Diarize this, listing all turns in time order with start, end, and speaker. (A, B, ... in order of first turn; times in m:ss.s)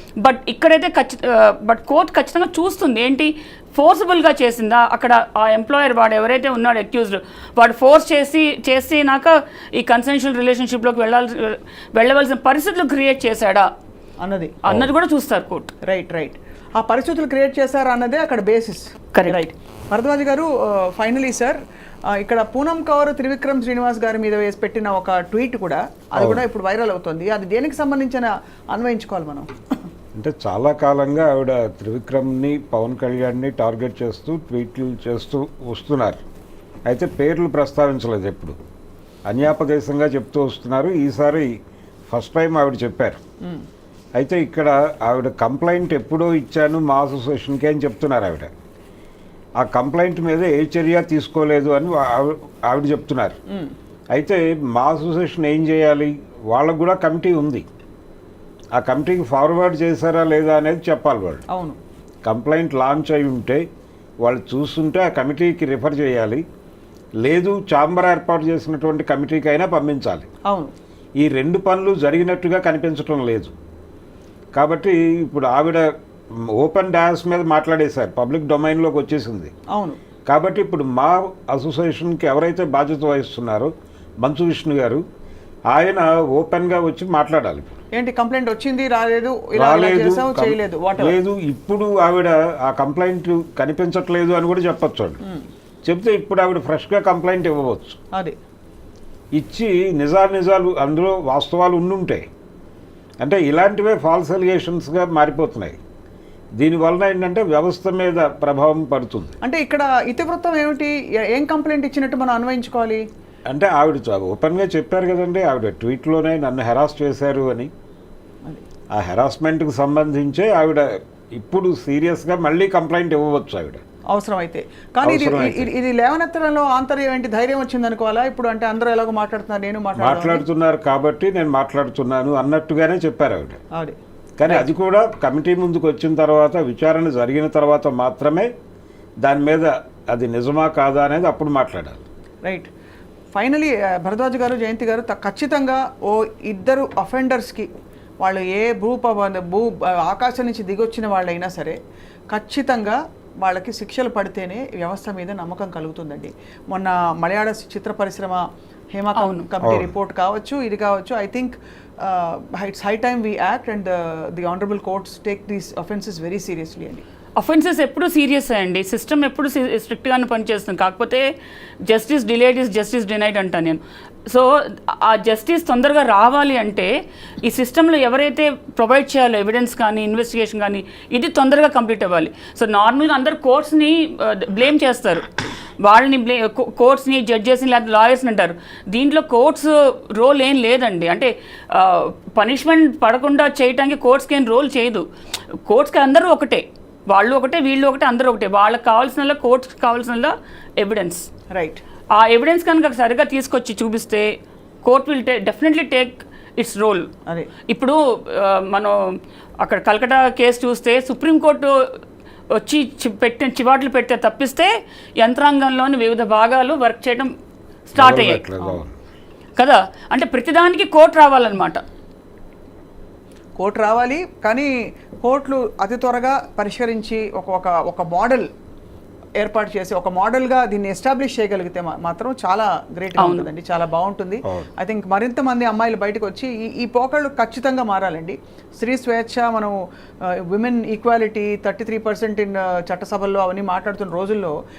0:00.2-0:13.7 A
0:14.2-0:14.6 B
0:14.6-0:15.7 A
0:15.8-0:21.6 B
0:19.1-0:19.4 A
0:22.1-0:29.5 B
0:26.2-0:26.4 C
0:30.2-0:36.2 C
0:36.9-0:38.6 C
0:39.3-0:41.5 C
0:42.1-0:43.2 C
0:44.2-0:48.5 C
0:49.6-0:53.4 C
0:54.1-0:57.6 C
0:58.8-1:01.4 C
1:01.5-1:01.8 B
1:02.2-1:03.6 C
1:04.2-1:06.4 C
1:07.2-1:10.3 C
1:10.5-1:10.7 B
1:11.2-1:13.6 C
1:14.6-1:15.9 C
1:16.5-1:19.5 C
1:19.7-1:20.0 B
1:20.3-1:23.7 C
1:24.2-1:25.0 C
1:25.7-1:27.8 C
1:27.9-1:31.2 B
1:29.6-1:35.2 C
1:35.8-1:38.0 C
1:39.4-1:42.3 C
1:43.2-1:45.8 C
1:46.6-1:49.4 C
1:49.4-1:53.0 B
1:53.5-1:57.7 C
1:58.9-2:03.8 C
2:04.1-2:10.4 B
2:05.0-2:05.7 C
2:10.0-2:13.6 C
2:13.7-2:14.7 B
2:14.4-2:18.5 C
2:19.2-2:22.0 C
2:23.3-2:27.7 B
2:28.2-2:31.8 B
2:32.3-2:38.4 B
2:38.9-2:47.0 B
2:39.2-2:39.5 A
2:39.6-2:39.9 C
2:47.4-2:51.3 A
2:51.9-2:56.9 A
2:57.4-3:05.3 A
3:05.8-3:15.0 A
3:15.7-3:21.3 A
3:21.5-3:21.8 B
3:22.2-3:24.3 A
3:24.8-3:27.1 A
3:27.7-3:32.0 A
3:32.6-3:37.3 A
3:37.9-3:38.4 A
3:38.0-3:38.9 C
3:39.6-3:41.8 A
3:43.6-3:44.7 B
3:45.2-3:48.5 B
3:49.4-3:59.8 B
3:53.2-3:53.5 A
4:00.4-4:04.5 B